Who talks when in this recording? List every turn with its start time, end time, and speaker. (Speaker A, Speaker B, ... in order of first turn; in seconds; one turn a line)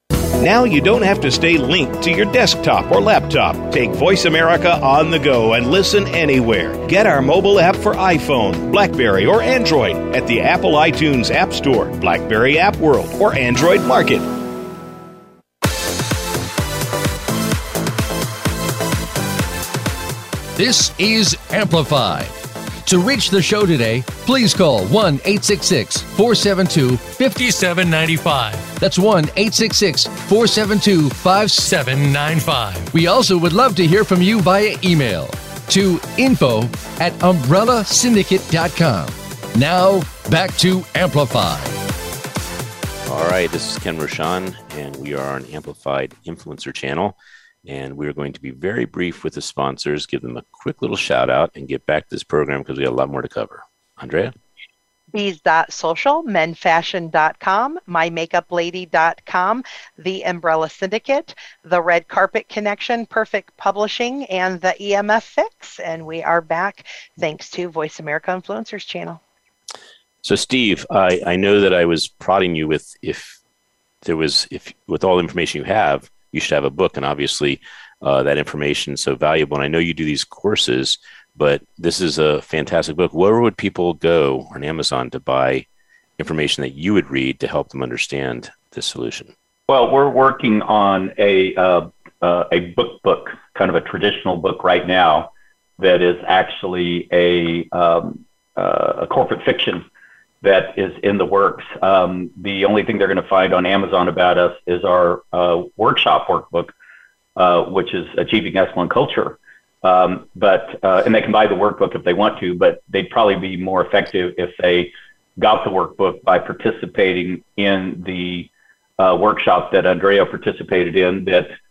Speaker A: 0.4-14.3
Speaker B: 20.6-41.8
Speaker C: 43.0-54.3
Speaker D: 55.1-69.2
Speaker C: 70.2-73.4
Speaker C: 74.0-85.7
Speaker C: 86.2-89.3
Speaker E: 89.7-99.8
Speaker E: 100.4-106.7
Speaker E: 107.3-121.5